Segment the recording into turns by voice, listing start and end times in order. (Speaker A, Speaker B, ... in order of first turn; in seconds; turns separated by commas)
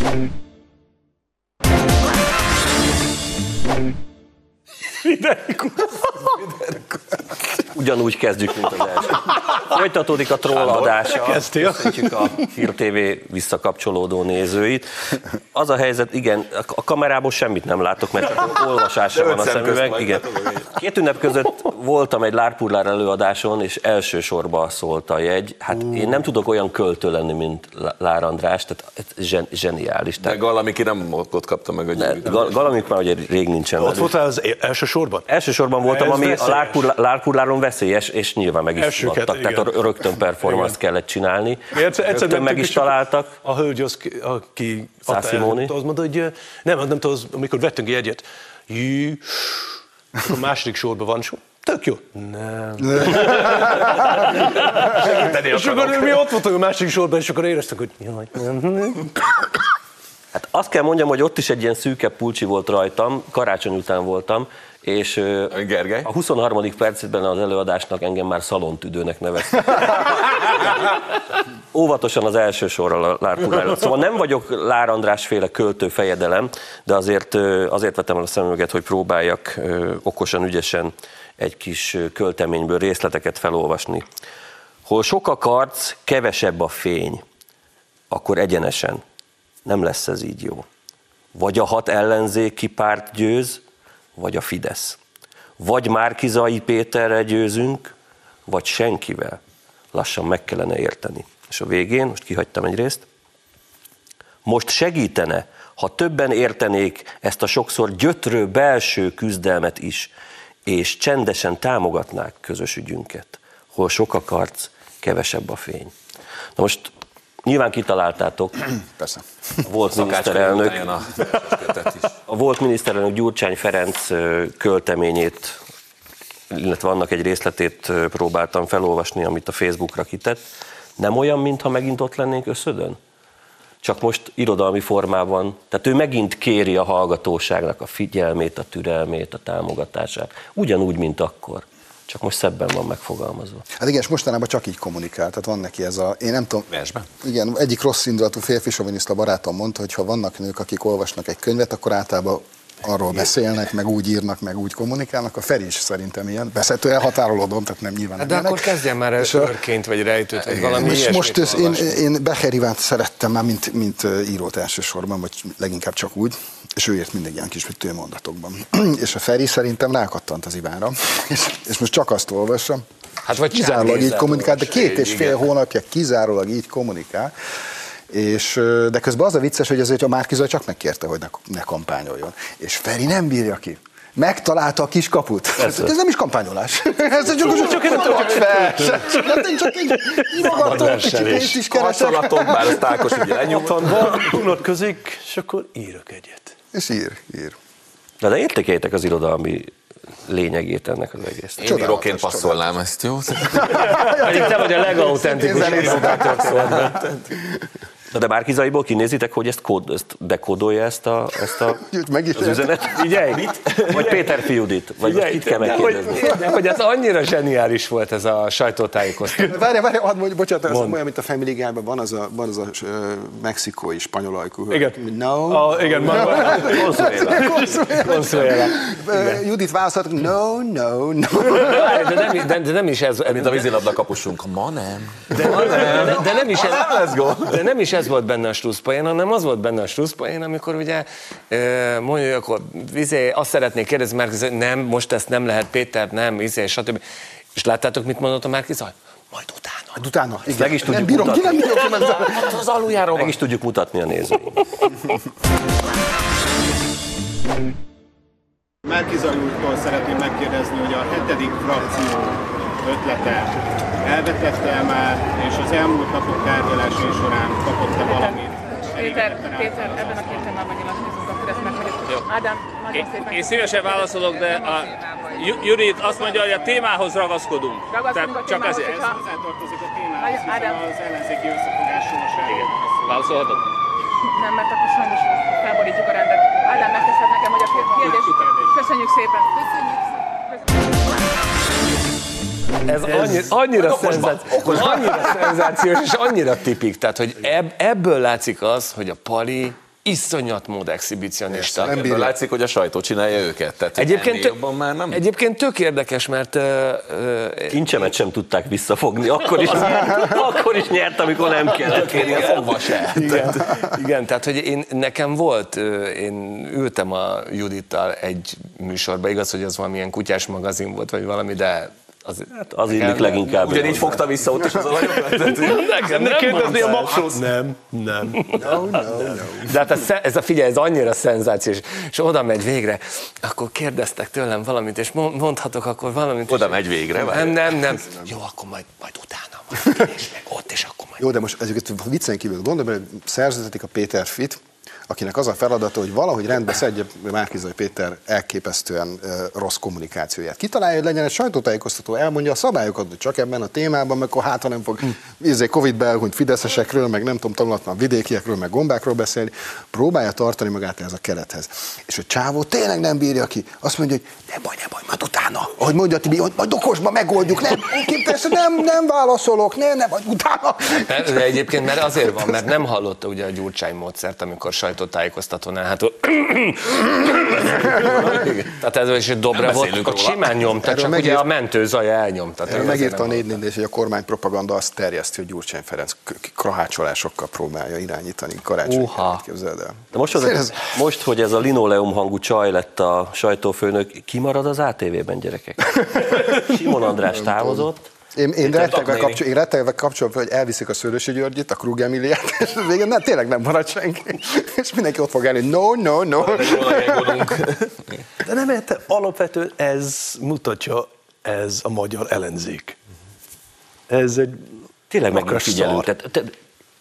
Speaker A: 5.0-6.1, Speaker B: 7.7-30.4, Speaker C: 10.9-12.3, Speaker D: 19.1-20.7, Speaker D: 30.2-32.6, Speaker B: 32.0-34.1, Speaker C: 33.8-35.3, Speaker B: 35.3-43.4, Speaker C: 35.9-36.9, Speaker C: 38.8-40.8, Speaker C: 41.7-59.5, Speaker B: 45.1-45.8, Speaker D: 55.4-56.2, Speaker B: 60.3-70.9, Speaker D: 65.5-66.1, Speaker B: 71.7-84.0, Speaker B: 84.9-87.2, Speaker B: 88.1-89.0, Speaker B: 89.7-90.7, Speaker B: 91.3-93.6, Speaker B: 94.2-95.0, Speaker B: 95.6-97.9, Speaker B: 98.5-99.4, Speaker B: 99.9-103.0, Speaker B: 104.5-110.1, Speaker B: 110.7-115.9, Speaker B: 116.6-116.9, Speaker B: 117.5-118.6, Speaker E: 119.0-119.2, Speaker B: 119.7-120.8, Speaker D: 119.9-122.2, Speaker B: 122.3-125.6, Speaker B: 126.5-130.4, Speaker B: 131.0-133.0, Speaker B: 133.8-143.6, Speaker E: 143.8-146.7, Speaker D: 146.7-147.1, Speaker E: 147.2-159.6, Speaker A: 158.2-162.0, Speaker E: 160.5-172.8, Speaker A: 173.3-175.2, Speaker E: 173.4-177.3, Speaker E: 178.1-193.3, Speaker B: 185.6-185.9, Speaker C: 187.2-189.4, Speaker C: 190.2-191.6, Speaker A: 190.5-191.6, Speaker D: 191.7-194.2, Speaker C: 193.5-196.6, Speaker E: 196.7-197.6, Speaker B: 198.2-199.7, Speaker B: 200.2-201.6, Speaker D: 201.6-204.0, Speaker E: 201.6-202.7, Speaker E: 203.6-207.0, Speaker A: 203.8-207.1, Speaker B: 208.1-211.8, Speaker E: 211.8-212.9, Speaker B: 212.3-216.3, Speaker A: 213.0-214.3, Speaker A: 215.0-219.6, Speaker E: 219.5-232.3, Speaker A: 220.7-221.0, Speaker C: 224.7-227.8, Speaker B: 226.1-227.5, Speaker A: 227.9-228.9, Speaker A: 231.5-233.8, Speaker D: 233.3-237.6, Speaker A: 235.3-247.0, Speaker A: 247.6-250.0, Speaker E: 250.0-252.6, Speaker B: 250.5-251.9, Speaker D: 252.3-253.3, Speaker B: 253.1-254.6, Speaker F: 258.9-270.6, Speaker G: 268.0-276.3, Speaker H: 272.9-278.9, Speaker G: 277.9-279.2, Speaker F: 278.8-283.4, Speaker G: 280.2-280.9, Speaker H: 282.4-283.7, Speaker G: 284.3-290.6, Speaker F: 287.8-288.7, Speaker A: 292.9-302.0, Speaker D: 293.2-295.5, Speaker E: 301.5-302.3, Speaker D: 301.9-305.2, Speaker A: 304.0-304.6, Speaker A: 305.1-307.9, Speaker B: 307.7-312.7, Speaker D: 311.8-313.5, Speaker A: 313.1-323.9, Speaker B: 322.6-324.2, Speaker D: 323.5-325.9, Speaker C: 325.3-329.4, Speaker A: 325.6-327.5, Speaker E: 328.6-329.8, Speaker A: 328.6-341.2, Speaker D: 336.5-337.8, Speaker E: 341.2-371.3, Speaker A: 371.0-383.6, Speaker D: 378.0-378.6, Speaker D: 379.5-380.7, Speaker E: 380.8-381.5, Speaker E: 382.7-390.8, Speaker A: 388.9-389.4, Speaker B: 390.1-398.0, Speaker E: 397.3-407.6, Speaker D: 398.6-399.4, Speaker D: 406.4-407.9, Speaker C: 408.4-413.0, Speaker C: 414.1-414.8, Speaker B: 415.1-416.6, Speaker C: 415.3-416.1